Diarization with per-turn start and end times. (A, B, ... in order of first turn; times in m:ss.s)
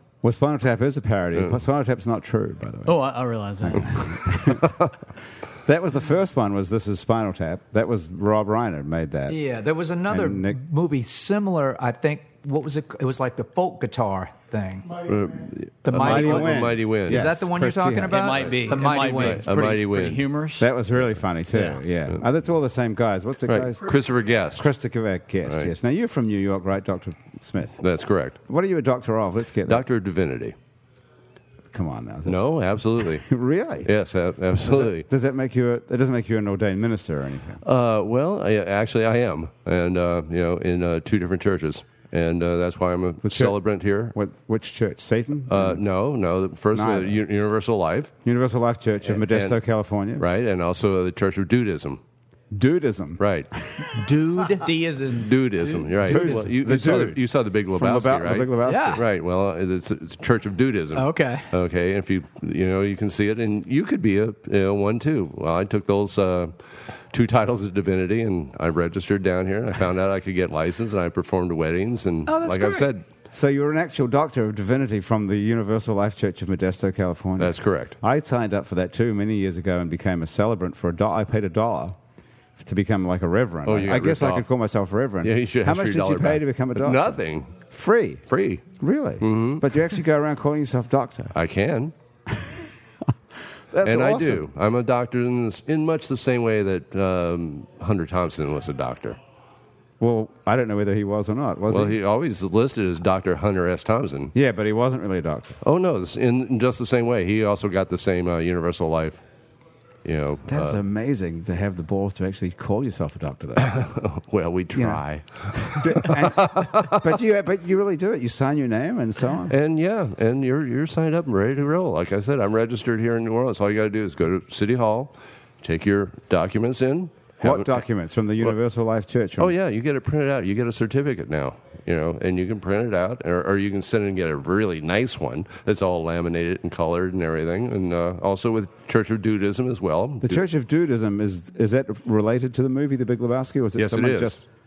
0:00.2-0:02.9 A
0:02.9-0:04.2 B
0:03.7-0:04.8 A
0:05.6-0:09.4 A
0:09.3-0:15.0 C
0:10.1-0:10.6 A
0:15.1-0:17.3 D
0:15.8-0:19.5 C
0:15.9-0:18.5 A
0:18.1-0:20.7 B
0:19.1-0:20.2 D
0:20.6-0:24.0 A
0:23.5-0:24.7 D
0:24.5-0:27.8 A
0:25.4-0:25.7 D
0:27.8-0:28.4 D
0:28.5-0:29.8 A
0:29.7-0:30.6 D
0:31.7-0:33.9 A
0:32.3-0:33.3 D
0:33.8-0:35.1 D
0:34.5-0:37.6 A
0:37.6-0:44.1 D
0:43.2-0:43.6 A
0:44.1-0:45.8 A
0:45.5-0:48.1 D
0:46.7-0:47.2 A
0:48.2-0:50.2 A
0:49.1-0:49.6 D
0:50.2-0:52.0 D
0:52.5-0:53.2 A
0:53.2-0:53.5 D
0:53.9-0:55.2 C
0:55.1-1:06.5 D
0:56.0-0:57.2 A
0:57.8-0:59.0 A
0:58.6-0:59.0 C
1:01.0-1:01.5 C
1:07.1-1:13.0 D
1:12.3-1:12.9 C
1:13.3-1:22.0 A
1:17.4-1:18.0 D
1:22.6-1:28.2 A
1:23.7-1:24.5 D
1:25.2-1:27.6 D
1:28.3-1:28.6 D
1:28.8-1:31.3 A
1:29.2-1:29.6 D
1:31.3-1:31.9 D
1:33.7-1:34.5 A
1:33.8-1:39.2 D
1:40.0-1:42.0 A
1:41.7-1:44.3 D
1:44.3-1:45.6 A
1:45.6-1:49.2 D
1:50.0-1:50.8 D
1:50.5-1:53.7 A
1:53.6-1:57.2 D
1:54.7-1:55.0 A
1:55.6-1:59.5 A
1:59.5-2:07.8 D
2:07.4-2:09.5 A
2:09.4-2:20.4 D
2:20.2-2:24.4 A
2:23.8-2:24.4 D